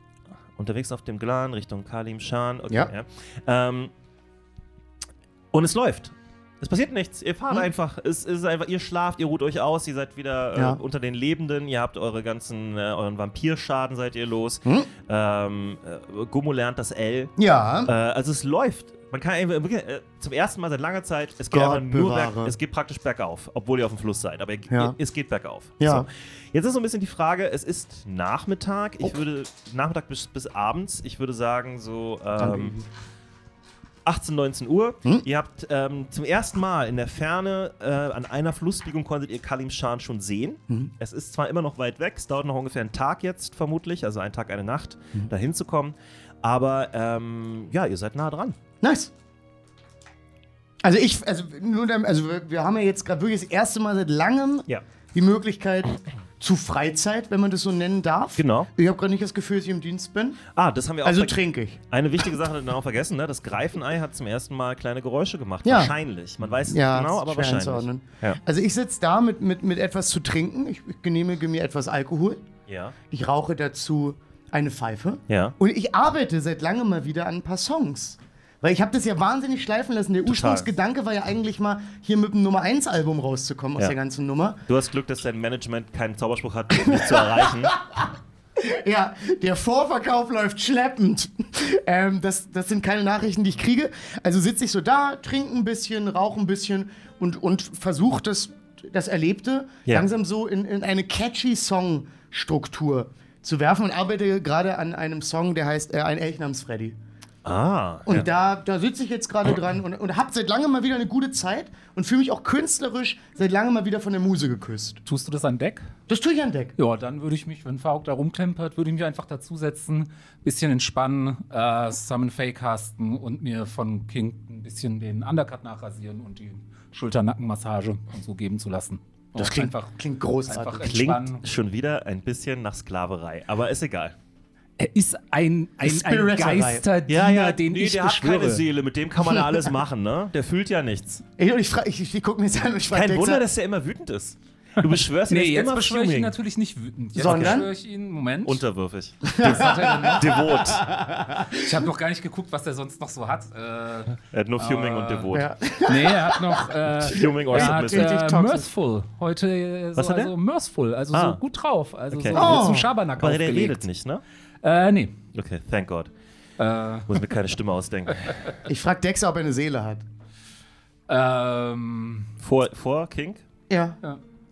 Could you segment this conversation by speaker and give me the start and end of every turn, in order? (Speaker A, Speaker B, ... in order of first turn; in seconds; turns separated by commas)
Speaker A: 0.6-3.9, Speaker A: 5.5-17.3, Speaker B: 10.6-10.8, Speaker B: 17.4-17.9, Speaker A: 17.9-32.8, Speaker B: 21.5-22.6, Speaker B: 24.7-25.0, Speaker B: 25.8-26.1, Speaker B: 32.4-32.9, Speaker A: 34.1-48.5, Speaker B: 48.8-49.1, Speaker B: 50.8-60.4, Speaker A: 58.4-58.7, Speaker A: 60.5-68.4, Speaker B: 61.0-61.8, Speaker B: 65.7-66.0, Speaker B: 66.7-72.5, Speaker A: 72.7-73.0, Speaker B: 73.1-84.6, Speaker A: 75.3-75.6, Speaker A: 80.3-80.7, Speaker A: 84.7-87.8, Speaker B: 86.8-107.0, Speaker A: 107.5-108.3, Speaker B: 108.1-115.0, Speaker C: 115.1-115.9, Speaker B: 116.1-116.8, Speaker C: 116.8-129.9, Speaker B: 129.3-131.0, Speaker C: 130.5-131.4, Speaker A: 130.8-134.2, Speaker C: 134.8-138.6, Speaker B: 135.8-136.9, Speaker A: 137.1-141.2, Speaker B: 141.4-143.4, Speaker A: 142.9-146.3, Speaker C: 145.3-148.6, Speaker A: 147.2-147.7, Speaker B: 147.2-147.7, Speaker A: 148.4-150.8, Speaker B: 149.3-151.8, Speaker C: 149.4-150.4, Speaker C: 151.5-155.3, Speaker A: 154.3-155.5, Speaker B: 155.3-156.7, Speaker C: 155.8-163.8, Speaker A: 157.1-158.6, Speaker B: 157.2-158.6, Speaker A: 160.0-160.3, Speaker A: 161.1-161.4, Speaker A: 162.1-162.6, Speaker B: 162.3-162.9, Speaker A: 163.2-164.2, Speaker C: 164.6-165.2, Speaker A: 165.3-166.1, Speaker C: 166.6-167.1, Speaker A: 167.1-168.5, Speaker B: 168.7-170.0, Speaker C: 171.1-172.3, Speaker A: 172.4-173.4, Speaker B: 173.7-174.0